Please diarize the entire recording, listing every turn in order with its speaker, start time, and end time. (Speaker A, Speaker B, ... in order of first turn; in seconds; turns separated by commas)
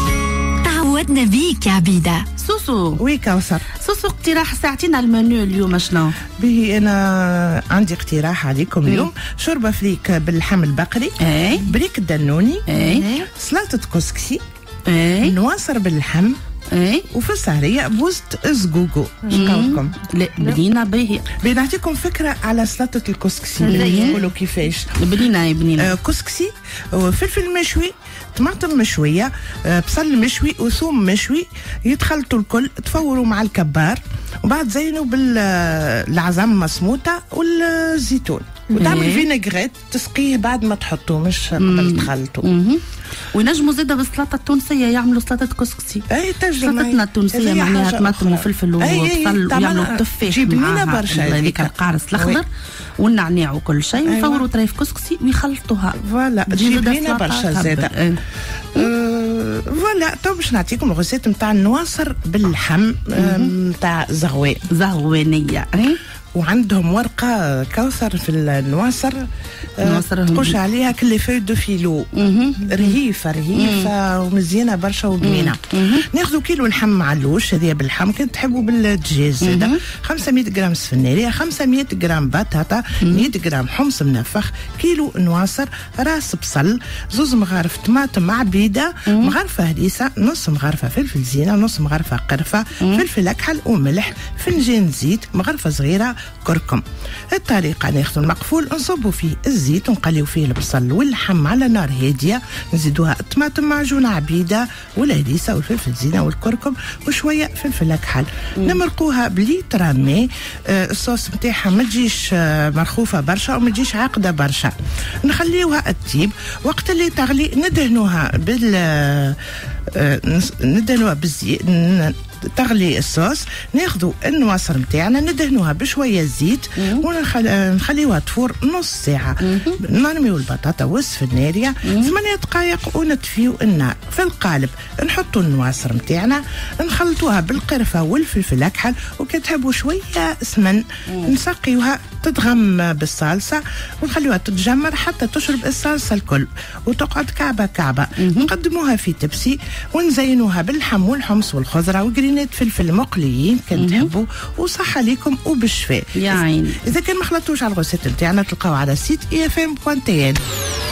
Speaker A: 0.6-2.2, Speaker B: 2.4-3.0, Speaker C: 3.0-3.6, Speaker B: 3.8-6.2, Speaker C: 6.4-14.4, Speaker B: 11.2-11.7, Speaker B: 12.7-13.1, Speaker A: 12.8-13.2, Speaker B: 14.9-15.4, Speaker C: 15.2-16.4, Speaker B: 16.7-17.1, Speaker C: 17.1-19.9, Speaker B: 19.3-21.3, Speaker C: 21.4-25.0, Speaker B: 23.6-24.3, Speaker A: 23.7-24.3, Speaker B: 25.0-25.9, Speaker C: 25.8-42.5, Speaker B: 38.8-39.3, Speaker B: 41.6-42.8, Speaker B: 43.3-52.5, Speaker C: 46.1-52.4, Speaker B: 53.0-58.2, Speaker C: 54.0-54.5, Speaker C: 56.0-57.9, Speaker C: 58.7-64.7, Speaker B: 63.2-63.5, Speaker B: 64.7-66.0, Speaker C: 66.3-69.2, Speaker C: 69.8-72.1, Speaker B: 69.8-70.6, Speaker B: 72.1-73.0, Speaker C: 72.6-96.8, Speaker B: 73.5-73.9, Speaker B: 75.2-76.1, Speaker B: 79.4-79.8, Speaker B: 83.0-83.3, Speaker B: 89.1-89.3, Speaker C: 97.3-114.7, Speaker C: 115.2-119.4, Speaker C: 119.9-160.4, Speaker B: 126.8-127.1, Speaker B: 129.4-129.8, Speaker B: 131.8-132.2, Speaker B: 141.1-141.3, Speaker B: 148.2-148.5, Speaker B: 153.8-154.1, Speaker B: 156.2-156.8